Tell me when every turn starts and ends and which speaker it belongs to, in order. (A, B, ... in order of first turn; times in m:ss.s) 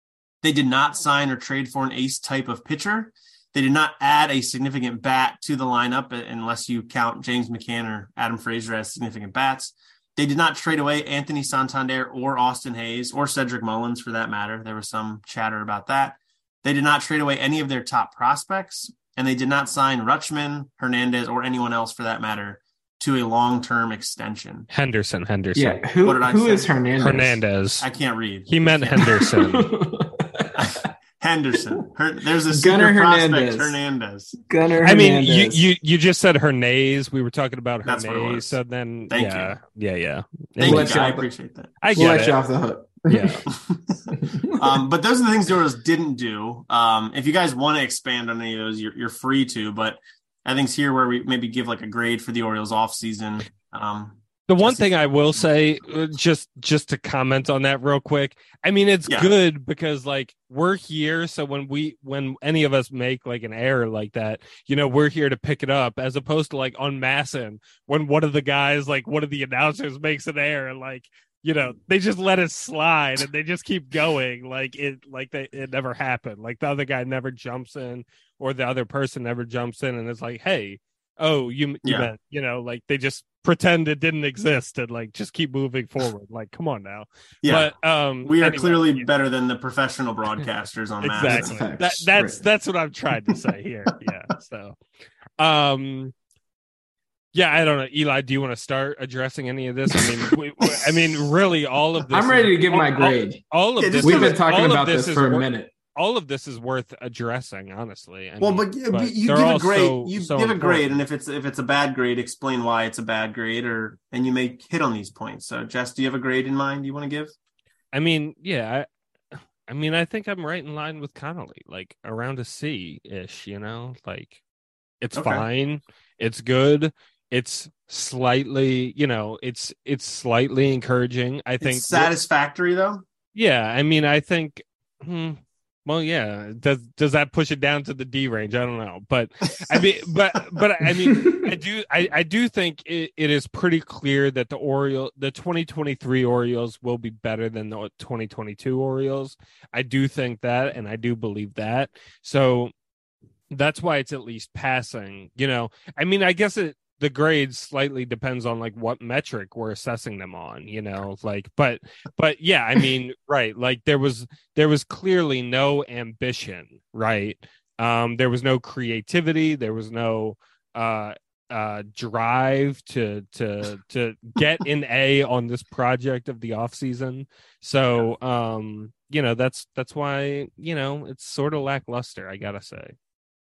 0:00.4-0:24.7 A
0:24.7-0:25.8 B
0:25.5-0:27.4 C
0:26.0-0:26.7 A
0:27.0-0:27.8 B
0:27.8-0:28.9 A
0:28.4-0:29.7 B
0:29.0-0:30.5 C
0:30.5-0:34.3 A
0:32.5-0:33.8 C
0:34.3-0:35.6 C
0:34.8-0:41.0 B
0:37.8-0:38.6 A
0:39.1-0:39.6 A
0:40.6-0:41.7 A
0:40.6-0:41.3 C
0:41.8-0:42.4 B
0:41.9-0:43.4 C
0:43.1-0:43.4 B
0:43.5-0:54.8 A
0:44.1-0:44.6 C
0:54.5-1:29.1 B
1:21.8-1:22.1 A
1:27.4-1:27.7 A
1:28.2-1:31.6 A
1:31.0-1:34.8 B
1:31.2-1:32.4 C
1:35.4-1:36.1 B
1:37.3-1:51.0 B
1:42.1-1:43.4 C
1:43.8-1:44.4 A
1:44.0-1:45.7 C
1:48.4-1:57.3 A
1:57.9-2:04.4 B
2:05.0-2:12.1 B
2:05.1-2:05.4 A
2:11.6-2:13.0 A
2:13.3-2:32.7 B
2:19.6-2:20.6 A
2:21.0-2:21.4 C
2:33.5-3:02.9 B